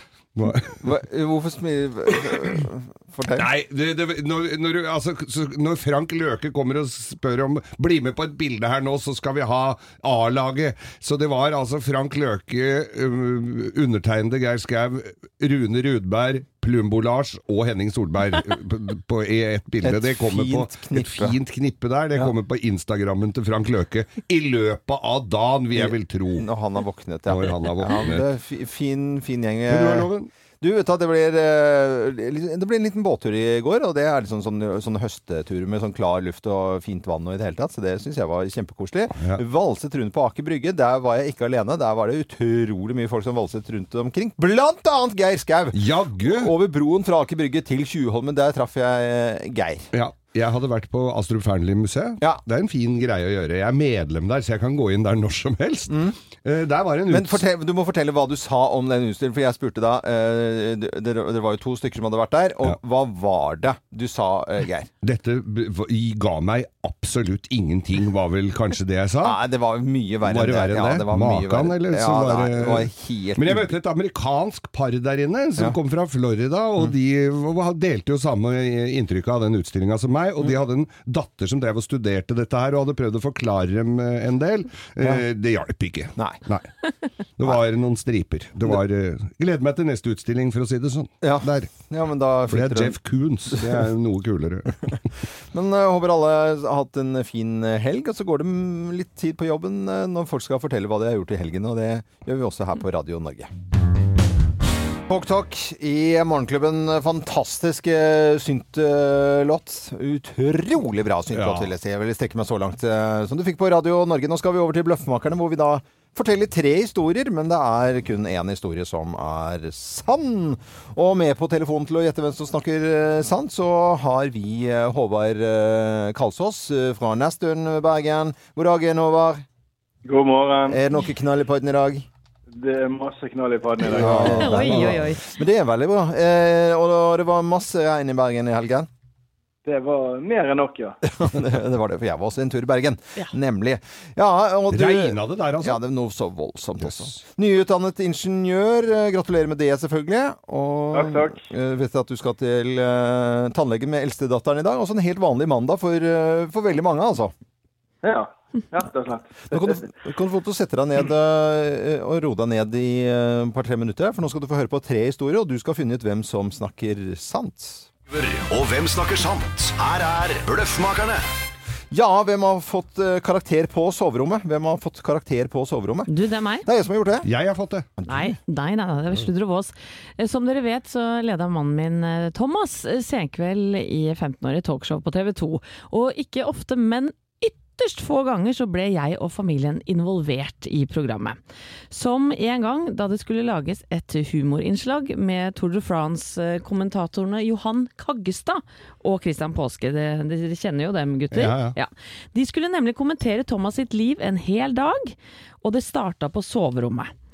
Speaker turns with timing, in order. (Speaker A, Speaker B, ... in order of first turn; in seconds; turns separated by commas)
Speaker A: 0.3-0.9, Speaker B: 0.7-3.5, Speaker A: 2.2-2.6, Speaker A: 3.3-26.5, Speaker B: 19.8-21.4, Speaker B: 25.7-30.1, Speaker A: 27.3-28.2, Speaker A: 29.7-30.3, Speaker B: 30.6-49.9, Speaker A: 45.7-46.5, Speaker A: 49.9-57.4, Speaker B: 55.9-56.2, Speaker B: 57.1-64.9, Speaker A: 65.0-69.4, Speaker B: 69.2-73.7, Speaker A: 70.2-86.7, Speaker A: 87.4-91.7, Speaker B: 91.2-93.0, Speaker A: 92.5-95.0, Speaker B: 93.5-93.9, Speaker B: 95.5-103.5, Speaker B: 105.1-129.4, Speaker A: 111.3-111.7, Speaker C: 130.0-130.8, Speaker B: 130.7-132.1, Speaker C: 132.5-134.2, Speaker B: 133.8-138.9, Speaker A: 133.9-135.2, Speaker D: 134.2-135.3, Speaker C: 139.6-141.0, Speaker B: 141.0-157.3, Speaker A: 144.7-145.8, Speaker A: 146.8-147.2, Speaker C: 150.9-151.4, Speaker C: 158.0-159.8, Speaker B: 159.5-167.9, Speaker E: 168.1-171.2, Speaker B: 171.9-176.1, Speaker D: 176.1-176.7, Speaker B: 176.6-177.3, Speaker A: 177.2-177.9, Speaker B: 178.0-178.3, Speaker D: 178.1-191.4, Speaker D: 191.9-207.1, Speaker A: 201.3-201.8